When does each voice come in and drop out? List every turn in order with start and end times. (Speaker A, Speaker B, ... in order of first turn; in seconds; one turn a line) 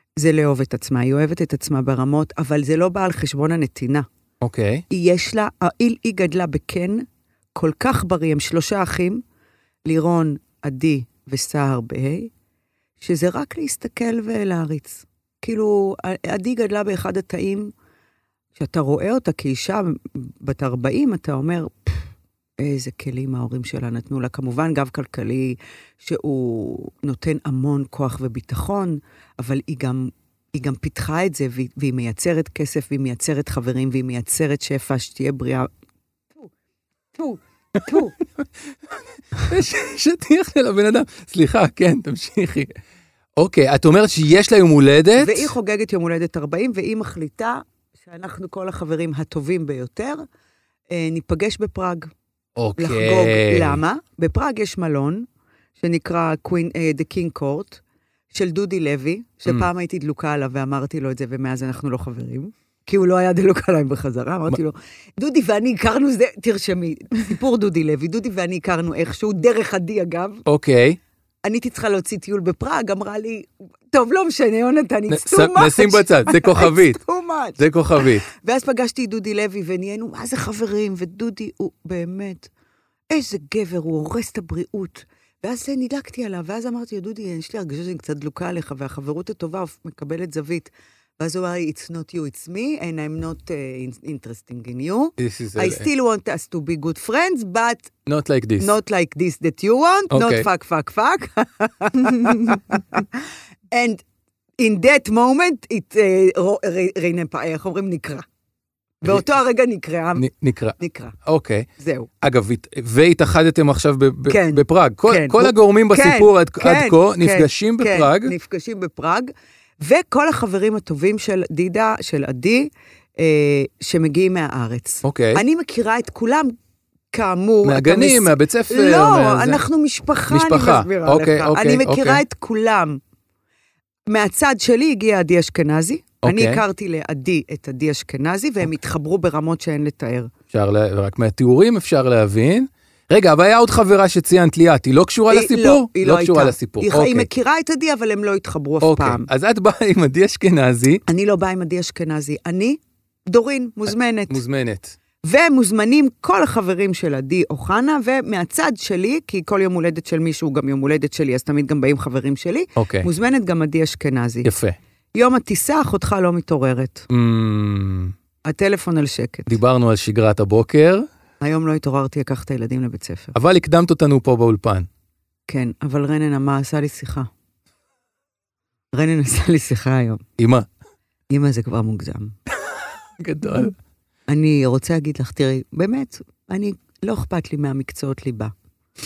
Speaker A: 0.2-4.1
Speaker B: 4.4-4.8
Speaker A: 4.9-9.2
Speaker A: 9.8-12.3
Speaker A: 13.0-17.7
Speaker A: 18.6-22.0
Speaker A: 22.6-35.7
Speaker A: 37.1-38.1
Speaker B: 39.4-42.8
Speaker B: 43.4-45.5
Speaker A: 45.2-50.2
Speaker A: 50.9-52.1
Speaker B: 52.6-53.8
Speaker A: 52.8-55.3
Speaker A: 55.8-57.8
Speaker A: 58.3-70.4
Speaker B: 70.5-71.0
Speaker A: 71.5-82.5
Speaker B: 75.1-77.0
Speaker B: 77.6-78.2
Speaker A: 83.1-97.9
Speaker B: 95.2-95.9
Speaker B: 98.1-98.7
Speaker A: 98.6-103.2
Speaker B: 100.1-100.5
Speaker A: 103.7-104.0
Speaker A: 104.6-108.2
Speaker A: 109.0-110.3
Speaker B: 110.2-111.7
Speaker A: 110.8-111.2
Speaker A: 111.8-112.1
Speaker B: 112.2-118.3
Speaker A: 114.3-126.5
Speaker B: 125.0-125.4
Speaker A: 127.1-133.0
Speaker B: 127.6-129.6
Speaker B: 130.3-132.2
Speaker A: 134.1-140.3
Speaker B: 136.2-136.6
Speaker B: 140.5-147.3
Speaker A: 145.3-149.3
Speaker B: 148.8-151.0
Speaker A: 151.1-154.4
Speaker B: 154.3-154.9
Speaker A: 155.2-164.5
Speaker B: 162.8-163.1
Speaker B: 164.4-164.8
Speaker A: 165.2-167.1
Speaker B: 167.1-168.1
Speaker A: 168.4-169.6
Speaker B: 169.5-171.1
Speaker A: 171.4-173.3
Speaker B: 173.3-174.9
Speaker A: 175.5-177.3
Speaker A: 178.9-180.2
Speaker B: 180.4-180.7
Speaker A: 181.3-182.3
Speaker B: 183.2-183.7
Speaker A: 184.3-188.5